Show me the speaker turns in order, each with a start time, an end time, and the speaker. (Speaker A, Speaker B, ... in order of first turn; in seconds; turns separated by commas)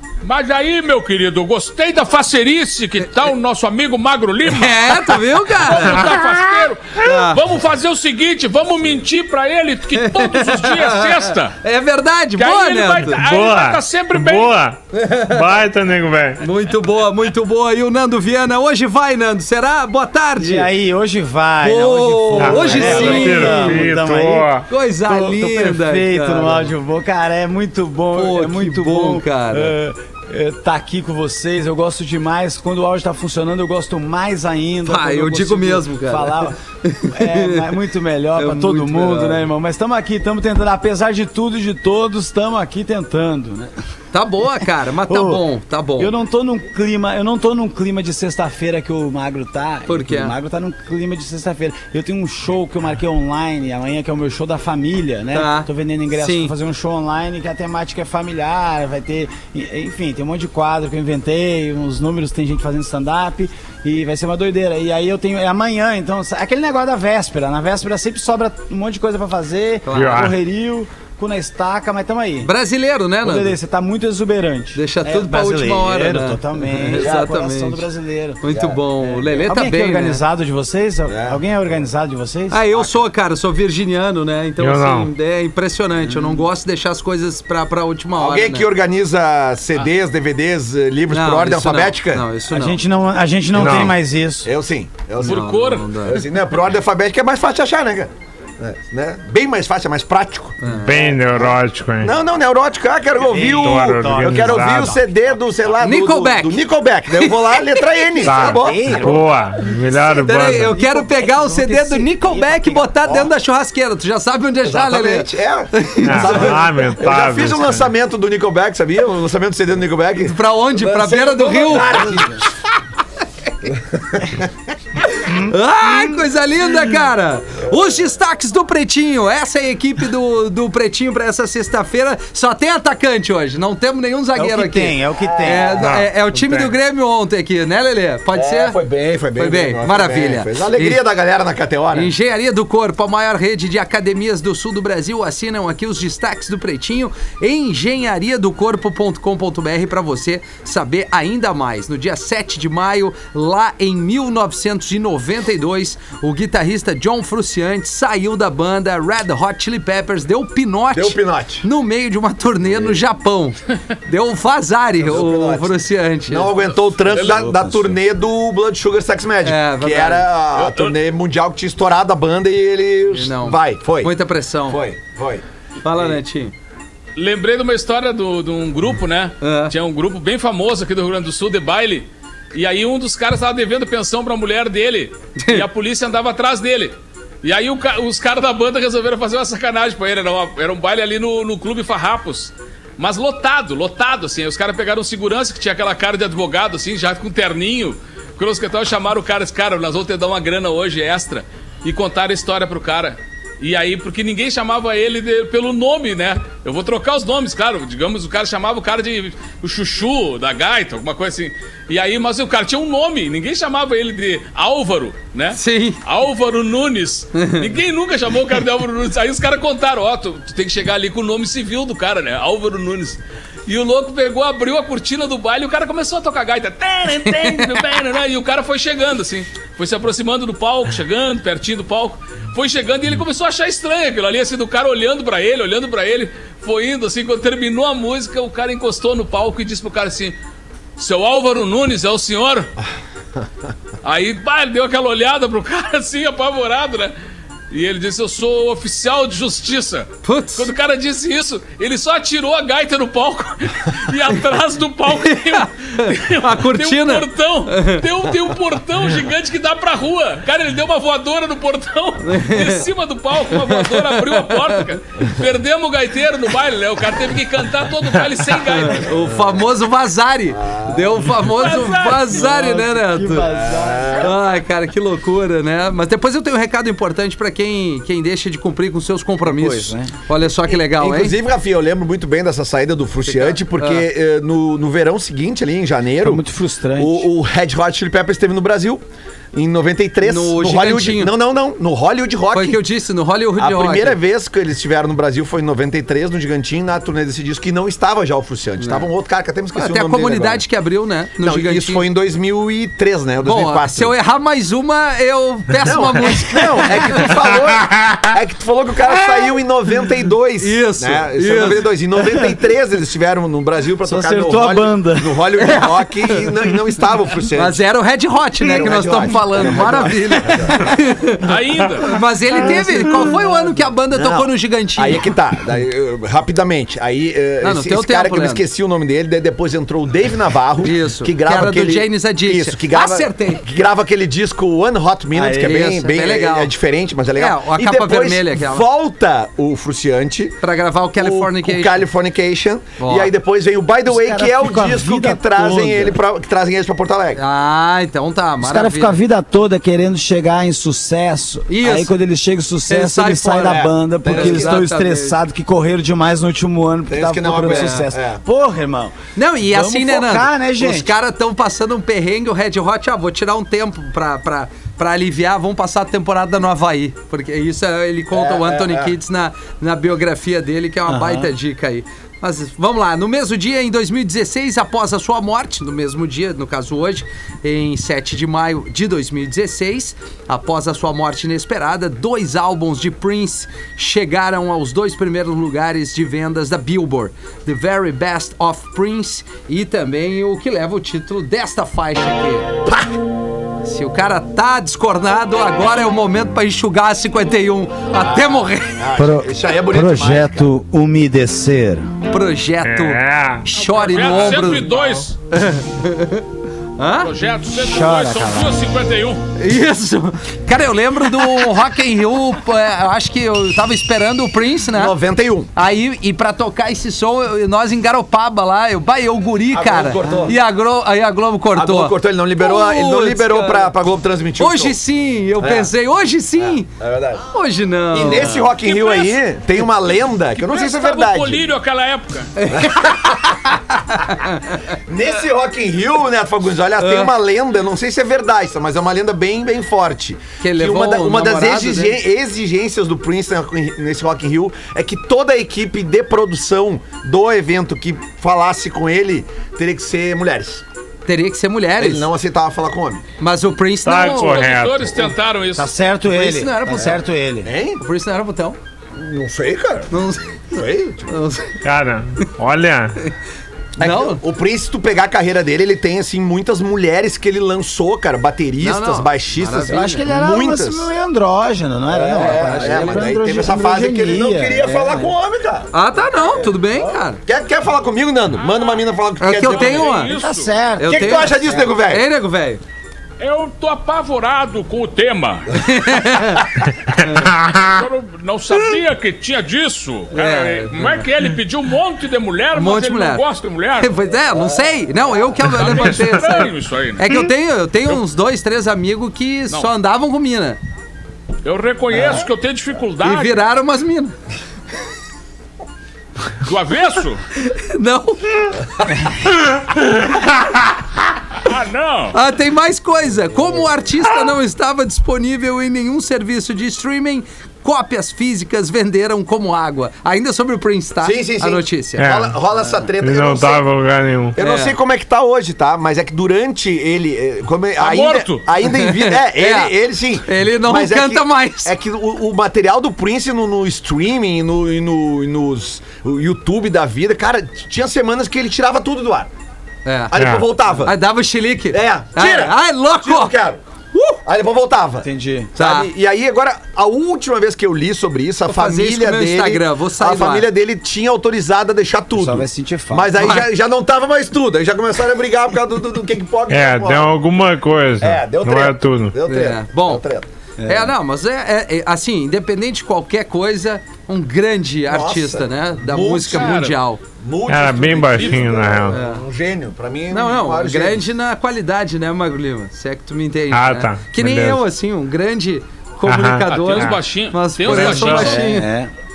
Speaker A: 0.2-11.6, Speaker B: 4.5-6.2, Speaker C: 6.0-6.7, Speaker B: 7.0-7.4, Speaker B: 10.0-13.2, Speaker A: 12.4-14.6, Speaker C: 13.1-16.4, Speaker B: 14.9-15.4, Speaker B: 16.4-20.7, Speaker D: 20.4-24.5, Speaker B: 21.6-23.9, Speaker C: 22.4-24.6, Speaker B: 24.7-26.7, Speaker D: 25.0-36.6, Speaker B: 28.1-29.7, Speaker B: 34.8-37.7, Speaker D: 37.1-43.7, Speaker B: 38.4-39.5, Speaker B: 44.1-46.1, Speaker D: 45.1-45.4, Speaker D: 46.0-72.5, Speaker B: 49.9-50.3, Speaker B: 55.3-56.5, Speaker B: 69.8-70.3, Speaker C: 69.9-70.3, Speaker B: 72.4-73.5, Speaker D: 73.2-78.4, Speaker B: 74.7-77.8, Speaker E: 77.0-77.3, Speaker B: 78.4-80.2, Speaker E: 78.5-78.8, Speaker D: 79.0-82.9, Speaker E: 81.1-81.4, Speaker B: 82.5-88.7, Speaker C: 84.6-85.1, Speaker E: 88.2-92.2, Speaker B: 91.1-92.8, Speaker D: 92.5-94.5, Speaker C: 93.5-93.9, Speaker E: 94.4-95.5, Speaker B: 95.2-96.2, Speaker A: 95.2-95.9, Speaker E: 96.0-109.1, Speaker B: 100.6-101.0, Speaker C: 100.8-102.1, Speaker D: 103.2-105.0, Speaker C: 103.5-105.0, Speaker B: 105.8-106.6, Speaker B: 107.2-107.8, Speaker C: 108.2-110.8, Speaker D: 108.3-109.3, Speaker B: 110.2-116.5, Speaker D: 110.3-113.0, Speaker E: 114.6-122.5, Speaker C: 116.0-117.9, Speaker B: 120.2-122.2, Speaker E: 123.7-124.5, Speaker B: 125.2-138.8, Speaker D: 134.3-135.9, Speaker E: 135.2-135.9, Speaker C: 135.8-136.7, Speaker E: 138.3-142.1, Speaker B: 139.3-141.0, Speaker B: 141.9-166.5, Speaker E: 160.9-161.6, Speaker E: 165.0-174.1, Speaker B: 167.1-168.0, Speaker B: 169.4-170.3, Speaker A: 170.6-170.9, Speaker B: 173.1-174.8, Speaker E: 174.7-175.4, Speaker B: 175.8-176.5, Speaker A: 177.2-240.3, Speaker B: 179.4-179.7, Speaker B: 185.4-185.6, Speaker B: 215.5-216.0, Speaker B: 217.3-217.7, Speaker B: 227.3-227.8, Speaker A: 241.0-242.7, Speaker A: 244.0-247.2, Speaker A: 247.7-269.1, Speaker B: 250.2-250.7, Speaker B: 255.1-258.0, Speaker B: 262.2-262.8, Speaker B: 263.5-264.8, Speaker B: 268.7-273.5, Speaker E: 269.1-269.5, Speaker E: 270.6-271.3, Speaker A: 271.5-272.4, Speaker D: 272.2-274.3, Speaker E: 273.5-274.3, Speaker B: 274.2-281.4, Speaker D: 279.4-280.1, Speaker E: 280.7-286.4, Speaker B: 283.3-284.1, Speaker D: 286.2-287.3, Speaker E: 287.0-289.0, Speaker E: 289.5-292.8, Speaker B: 290.2-291.3, Speaker B: 292.5-294.2, Speaker E: 293.6-300.6, Speaker B: 298.8-299.1, Speaker B: 299.7-302.1, Speaker E: 301.4-304.1, Speaker B: 303.4-307.3, Speaker E: 305.8-317.8, Speaker B: 310.6-311.9, Speaker D: 314.0-315.4, Speaker B: 315.6-316.4, Speaker B: 317.5-321.4, Speaker E: 318.6-320.8, Speaker A: 321.4-322.1, Speaker B: 322.0-325.3, Speaker D: 322.5-323.8, Speaker E: 324.1-340.6, Speaker B: 327.6-328.6, Speaker B: 330.8-333.6, Speaker D: 335.3-335.9, Speaker B: 335.6-336.7, Speaker B: 337.4-338.8, Speaker B: 340.6-342.0, Speaker E: 341.2-347.4, Speaker B: 343.0-343.3, Speaker D: 344.1-346.2, Speaker B: 347.4-349.2, Speaker D: 348.6-361.1, Speaker B: 351.7-352.1, Speaker B: 352.9-355.4, Speaker E: 353.6-354.8, Speaker E: 357.1-358.4, Speaker B: 357.6-358.1, Speaker B: 359.4-392.7, Speaker E: 368.3-369.1, Speaker D: 371.1-371.5, Speaker B: 393.8-399.0, Speaker E: 398.2-400.7, Speaker D: 399.1-402.1, Speaker B: 402.3-404.9, Speaker C: 402.8-403.7, Speaker A: 403.9-405.3, Speaker B: 405.5-406.4, Speaker B: 407.0-407.3, Speaker A: 407.2-409.4, Speaker D: 407.7-408.8, Speaker B: 409.6-415.1, Speaker E: 414.9-415.7, Speaker B: 415.7-423.9, Speaker E: 419.7-420.6, Speaker E: 421.7-425.0, Speaker B: 424.6-426.9, Speaker E: 425.6-425.9, Speaker E: 426.6-427.4, Speaker B: 427.5-428.7, Speaker E: 428.1-431.7, Speaker A: 428.7-429.4, Speaker A: 430.6-432.5, Speaker B: 432.6-433.1, Speaker E: 432.7-433.8, Speaker B: 434.1-434.7, Speaker E: 435.1-450.8, Speaker B: 437.0-437.3, Speaker B: 440.6-442.2, Speaker B: 451.3-452.2, Speaker E: 452.0-453.2, Speaker B: 453.4-454.7, Speaker C: 454.0-455.2, Speaker A: 454.1-455.9, Speaker D: 455.8-457.7, Speaker B: 456.3-457.2, Speaker E: 457.6-458.0, Speaker B: 458.0-458.8, Speaker E: 459.1-460.1, Speaker B: 460.1-460.5, Speaker E: 460.7-461.3, Speaker B: 461.3-461.7, Speaker C: 461.8-463.1, Speaker E: 464.0-471.1, Speaker B: 464.0-464.4, Speaker B: 468.8-470.3, Speaker D: 469.9-475.3, Speaker E: 472.1-480.2, Speaker B: 472.3-473.3, Speaker B: 475.9-477.4, Speaker A: 478.6-479.0, Speaker B: 479.4-480.3, Speaker A: 479.6-480.7, Speaker D: 480.3-481.9, Speaker B: 481.0-482.8, Speaker E: 481.1-482.2, Speaker A: 483.4-485.7, Speaker B: 485.8-486.7, Speaker A: 487.7-494.1, Speaker B: 490.3-491.2, Speaker B: 492.7-493.4, Speaker B: 494.0-500.8, Speaker A: 495.6-497.2, Speaker A: 501.6-503.6, Speaker B: 503.2-504.3, Speaker A: 506.6-507.4, Speaker B: 507.6-508.7, Speaker A: 511.6-512.4, Speaker B: 512.3-522.3, Speaker E: 521.2-523.8, Speaker C: 522.2-522.6, Speaker C: 523.2-524.6, Speaker E: 524.6-539.5, Speaker B: 524.6-524.9, Speaker A: 528.0-528.6, Speaker B: 528.8-531.9, Speaker B: 540.0-540.3, Speaker E: 540.3-541.1, Speaker C: 540.3-540.6, Speaker B: 541.0-543.6, Speaker E: 541.9-543.8, Speaker B: 544.1-544.4, Speaker E: 544.5-557.4, Speaker D: 545.2-545.7, Speaker B: 545.8-546.1, Speaker B: 548.7-550.7, Speaker D: 552.3-553.6, Speaker B: 553.4-553.7, Speaker C: 556.7-559.4, Speaker E: 558.2-560.5, Speaker B: 559.5-560.2, Speaker D: 560.8-561.1, Speaker B: 560.9-567.2, Speaker E: 565.1-571.3, Speaker A: 566.5-566.9, Speaker C: 567.7-569.2, Speaker A: 568.3-568.7, Speaker B: 569.1-569.4, Speaker B: 570.3-578.9, Speaker C: 573.7-574.8, Speaker C: 576.3-577.2, Speaker A: 576.7-578.6, Speaker C: 577.9-578.5, Speaker D: 578.2-579.1